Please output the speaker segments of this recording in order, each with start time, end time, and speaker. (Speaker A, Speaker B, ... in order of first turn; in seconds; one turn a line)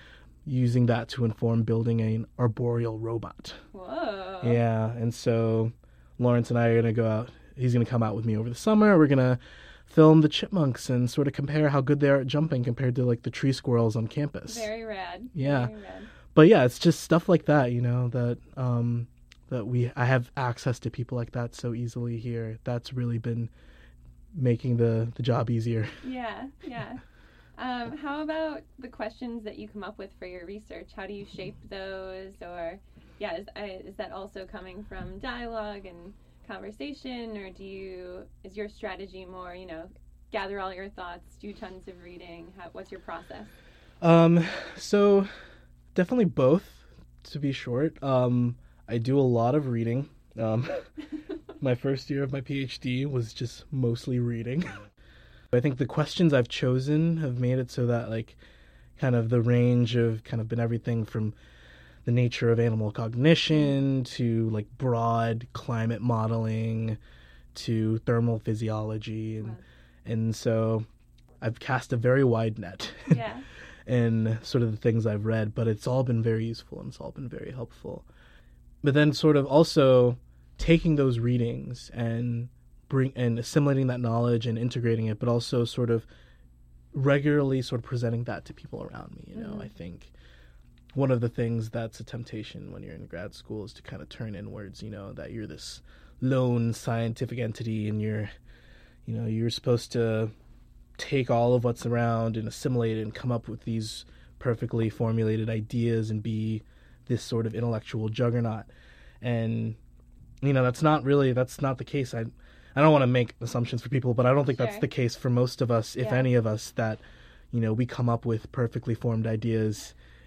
Speaker A: 0.5-3.6
Speaker B: 3.7-4.6
Speaker A: 4.4-14.7
Speaker B: 14.5-16.1
Speaker A: 15.3-15.7
Speaker A: 16.3-23.5
Speaker A: 24.3-26.0
Speaker B: 26.0-27.0
Speaker B: 27.6-43.5
Speaker A: 44.0-45.3
Speaker A: 45.9-50.9
Speaker A: 51.6-54.9
Speaker A: 55.5-58.4
Speaker A: 59.0-61.4
Speaker A: 62.0-67.0
Speaker A: 67.5-70.9
Speaker A: 71.4-73.2
Speaker B: 73.1-73.5
Speaker A: 73.9-78.1
Speaker A: 78.8-86.1
Speaker A: 86.9-90.1
Speaker B: 89.4-89.7
Speaker A: 90.9-98.3
Speaker A: 99.1-100.3
Speaker A: 101.0-108.7
Speaker A: 109.2-109.8
Speaker A: 110.4-117.0
Speaker B: 114.5-114.9
Speaker B: 116.0-116.3
Speaker A: 117.5-120.0